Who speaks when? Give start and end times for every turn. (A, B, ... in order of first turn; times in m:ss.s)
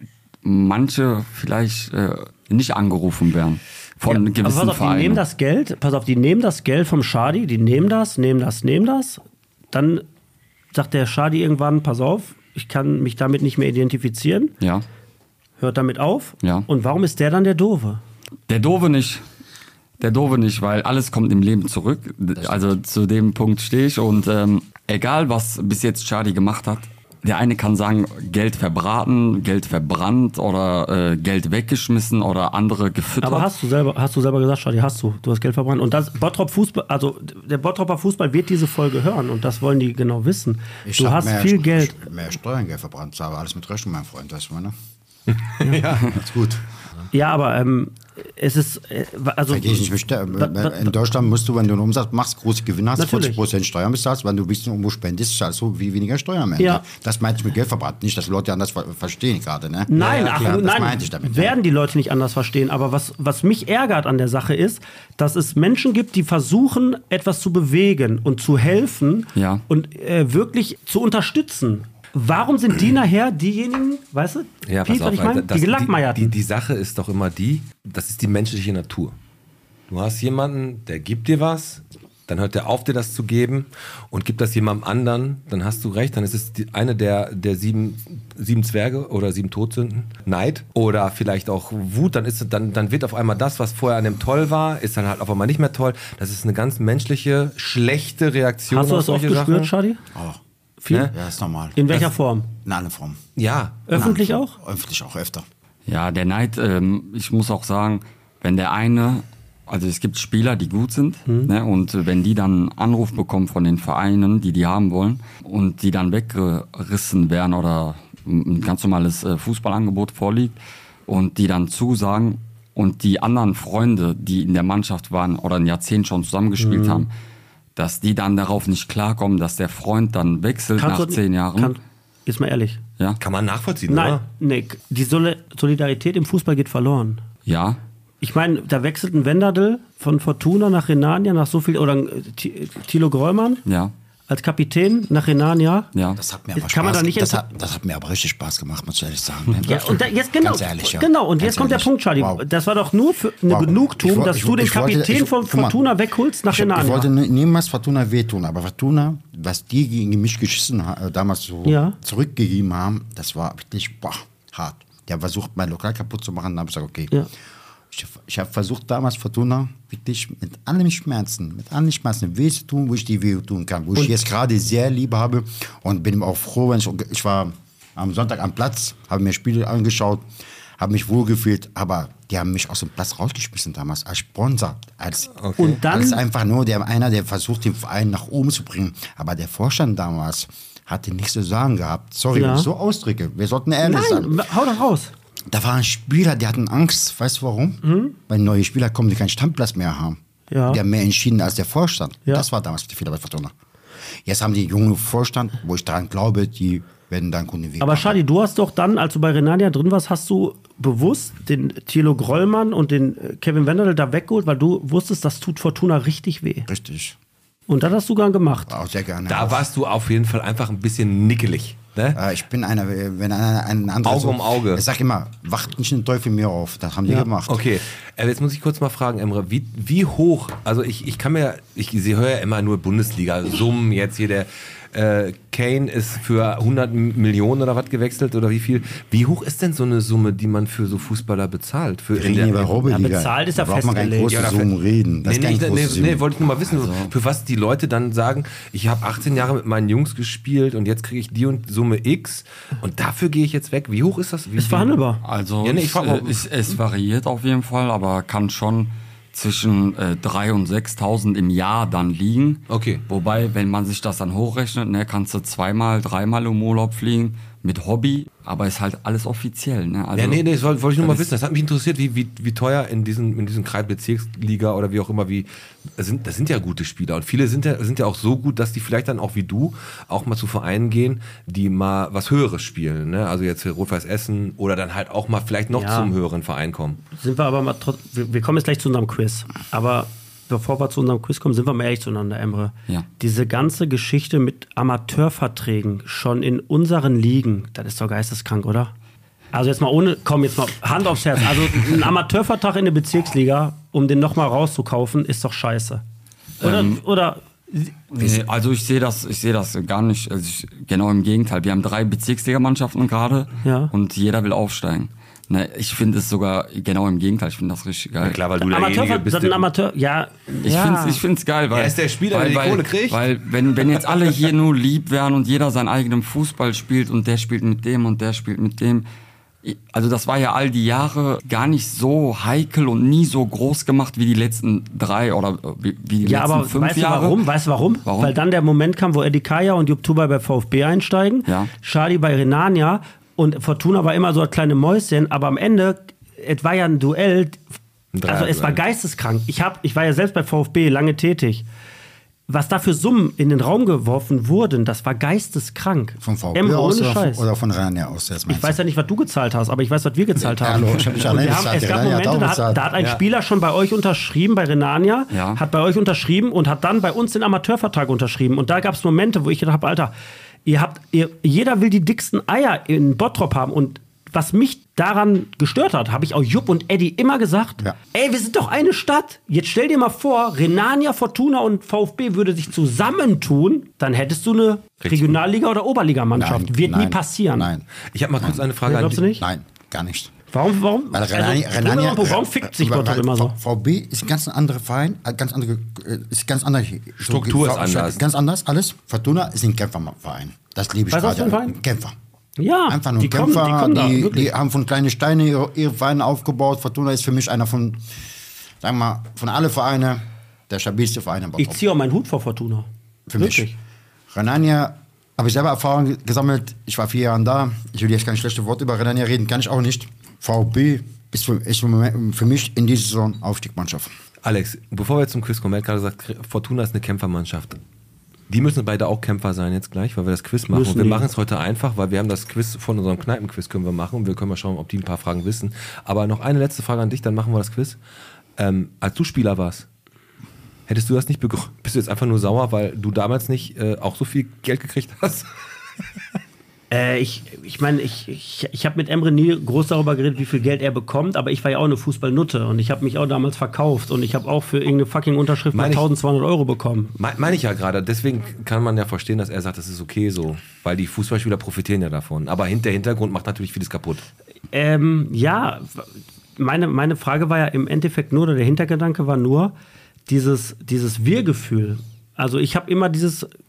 0:00.4-0:05.2 A
0:04.0-0:09.2 B
0:09.7-0:10.0 B
0:10.7-0:14.5 B
0:15.6-0:18.0 B
0:16.4-0:16.7 A
0:18.5-0:19.2 A
0:20.0-0:33.5 A
0:33.2-0:42.0 B
0:40.8-0:44.7 C
0:45.4-0:46.1 D
0:46.1-0:46.6 C
0:47.1-0:50.9 B
0:49.5-1:01.6 C
0:53.0-0:53.4 B
0:56.6-0:56.8 B
0:59.9-1:16.4 B
1:00.0-1:00.5 D
1:09.3-1:09.6 A
1:14.6-1:19.1 D
1:19.9-1:39.7 D
1:38.7-1:40.0 B
1:40.1-1:40.4 C
1:40.8-1:41.1 B
1:41.1-1:42.0 C
1:41.7-1:42.5 B
1:42.6-1:43.2 C
1:43.4-1:44.0 D
1:43.9-1:44.5 B
1:43.9-1:45.4 C
1:45.9-2:07.1 A
1:51.2-1:51.5 B
2:06.6-2:07.1 B
2:07.8-2:11.7 A
2:10.8-2:12.8 B
2:13.2-2:14.2 D
2:13.9-2:17.2 B
2:17.4-2:17.8 A
2:18.2-2:23.6 B
2:23.6-2:23.9 A
2:24.3-2:25.9 B
2:25.9-2:26.2 A
2:26.2-2:32.4 C
2:26.6-2:27.4 B
2:29.6-2:37.1 B
2:33.4-2:35.8 C
2:36.5-2:47.1 C
2:41.6-2:42.0 B
2:47.9-3:00.2 C
3:00.8-3:14.4 C
3:05.4-3:05.8 D
3:05.6-3:06.2 B
3:12.3-3:12.7 B
3:13.8-3:15.1 B
3:15.5-3:23.5 C
3:17.8-3:18.1 B
3:20.5-3:20.8 B
3:24.2-3:28.2 C
3:27.8-3:36.7 B
3:36.7-3:37.2 C
3:37.7-3:38.7 B
3:38.7-3:39.6 C
3:39.3-3:42.2 D
3:42.1-3:47.6 C
3:44.0-3:44.8 D
3:47.1-4:02.8 D
4:02.1-4:06.2 C
4:02.8-4:04.4 B
4:04.3-4:04.7 D
4:05.2-4:14.9 D
4:06.7-4:07.1 A
4:14.6-4:15.2 B
4:15.2-4:30.4 A
4:15.6-4:16.4 D
4:22.7-4:23.0 D
4:30.1-4:47.0 D
4:31.0-4:31.2 A
4:45.7-4:46.1 B
4:47.2-4:58.9 B
4:59.5-5:06.0 B
5:06.6-5:08.0 B
5:06.6-5:07.0 A
5:08.1-5:18.4 A
5:13.6-5:13.9 B
5:18.2-5:19.7 D
5:18.6-5:21.2 B
5:20.6-5:29.0 A
5:21.7-5:23.2 D
5:29.6-5:37.4 A
5:36.2-5:47.7 B
5:38.0-5:38.4 A
5:41.4-5:41.7 A
5:48.1-5:48.8 D
5:48.2-5:51.6 B
5:52.5-5:57.4 B
5:56.2-5:58.8 C
5:58.5-6:10.1 B
6:00.4-6:02.9 C
6:05.3-6:05.6 A
6:10.6-6:27.7 B
6:25.0-6:25.4 D
6:26.3-6:27.9 C
6:28.0-6:29.2 D
6:28.4-6:28.7 C
6:28.8-6:29.4 B
6:29.3-6:30.3 C
6:30.5-6:33.6 B
6:31.1-6:42.1 C
6:37.2-6:38.2 D
6:41.1-6:41.8 B
6:42.6-6:44.5 B
6:42.9-6:48.0 C
6:48.8-6:51.8 C
6:51.6-6:53.7 B
6:53.3-6:53.7 C
6:54.3-7:04.1 C
7:04.4-7:07.8 D
7:08.5-7:18.0 D
7:10.7-7:11.3 B
7:18.6-7:19.9 D
7:20.9-7:25.5 D
7:26.9-7:37.1 B
7:35.7-7:36.1 D
7:37.2-7:44.2 D
7:44.7-7:49.7 B
7:50.3-7:53.5 B